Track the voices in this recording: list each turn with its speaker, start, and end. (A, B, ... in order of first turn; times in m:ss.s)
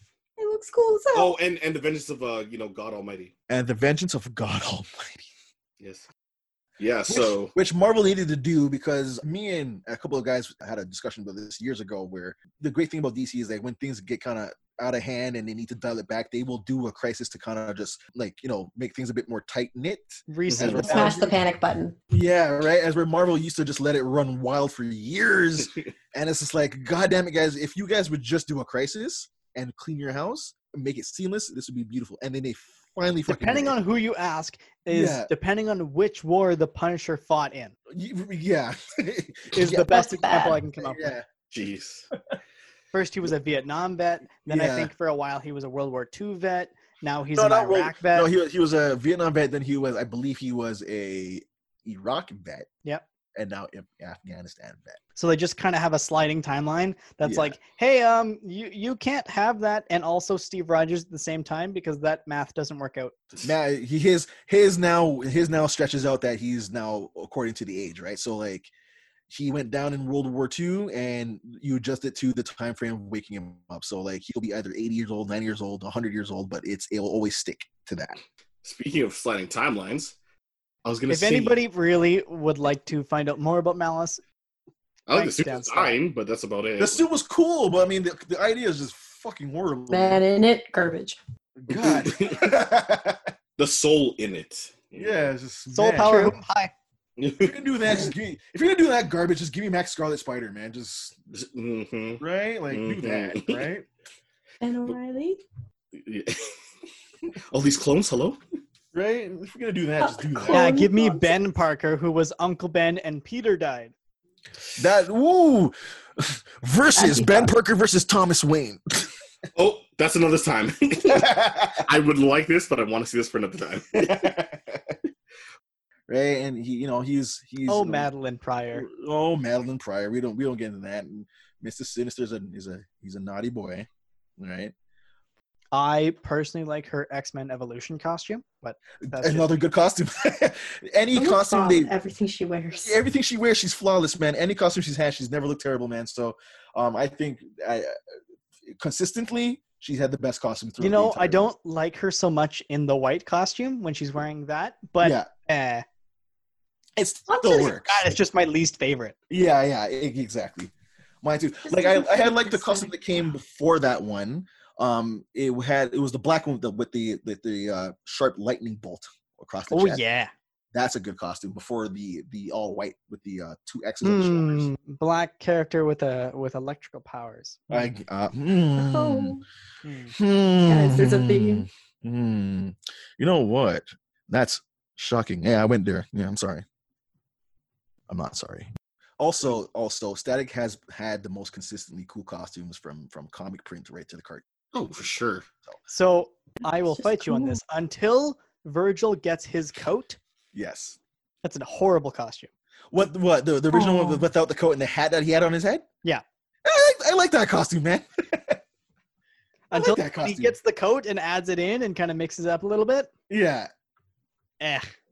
0:00.4-0:01.4 A
0:01.1-0:03.3 B
0:03.5-0:05.3 C
0:05.8-0:06.0 B
0:06.8-0:07.5 B
0:07.1-0:21.3 C
0:20.3-0:21.4 D
0:20.5-0:20.9 B
0:20.8-0:22.0 A
0:22.1-0:33.8 C
0:33.3-0:37.7 D
0:34.9-0:35.3 C
0:37.9-0:41.2 C
0:39.5-0:41.1 D
0:39.9-0:40.6 A
0:41.5-0:42.1 B
0:42.9-0:48.3 D
0:44.4-0:44.9 C
0:47.3-0:52.7 C
0:53.3-0:55.0 C
0:55.2-1:03.1 D
0:57.2-0:57.5 C
1:03.4-1:08.7 C
1:09.3-1:18.1 C
1:18.6-1:20.2 B
1:20.8-1:21.6 B
1:21.1-1:24.2 D
1:25.1-1:27.0 B
1:25.1-1:26.0 D
1:26.8-1:30.2 C
1:29.9-1:31.2 A
1:31.6-1:33.3 C
1:31.7-1:32.5 B
1:33.6-1:35.2 B
1:34.9-1:36.3 C
1:35.7-1:36.7 D
1:36.0-1:36.3 A
1:37.2-1:37.6 B
1:37.4-1:41.2 C
1:41.3-1:43.6 B
1:42.2-1:43.9 C
1:44.6-1:45.4 A
1:45.9-1:46.6 B
1:47.5-1:48.4 B
1:48.9-1:50.8 C
1:50.0-1:51.3 A
1:50.5-1:53.9 D
1:54.8-1:59.1 C
1:57.0-1:57.5 A
1:59.5-2:04.3 B
2:01.0-2:01.8 C
2:03.9-2:05.0 C
2:06.1-2:08.1 C
2:07.7-2:08.8 D
2:08.7-2:13.9 C
2:14.4-2:14.7 C
2:15.7-2:19.5 D
2:19.0-2:21.9 C
2:21.1-2:23.0 A
2:22.8-2:27.9 C
2:28.7-2:31.5 C
2:30.8-2:35.8 D
2:35.0-2:35.3 C
2:37.0-2:38.1 C
2:37.3-2:37.7 A
2:37.7-2:39.1 D
2:39.3-2:40.7 C
2:41.2-2:50.0 C
2:41.6-2:42.9 A
2:49.7-2:50.3 D
2:50.7-2:54.7 C
2:54.0-2:57.7 D
2:57.7-2:59.4 C
2:58.8-2:59.4 A
2:59.8-3:00.1 D
3:00.1-3:06.6 C
3:00.7-3:01.6 A
3:08.1-3:08.7 C
3:09.2-3:14.4 C
3:14.7-3:15.5 B
3:15.9-3:20.2 D
3:17.0-3:17.6 A
3:20.5-3:21.0 C
3:21.4-3:22.5 D
3:22.9-3:25.8 C
3:23.7-3:24.2 A
3:26.6-3:28.6 C
3:29.7-3:33.1 D
3:29.7-3:30.5 C
3:33.3-3:33.7 C
3:34.6-3:34.9 D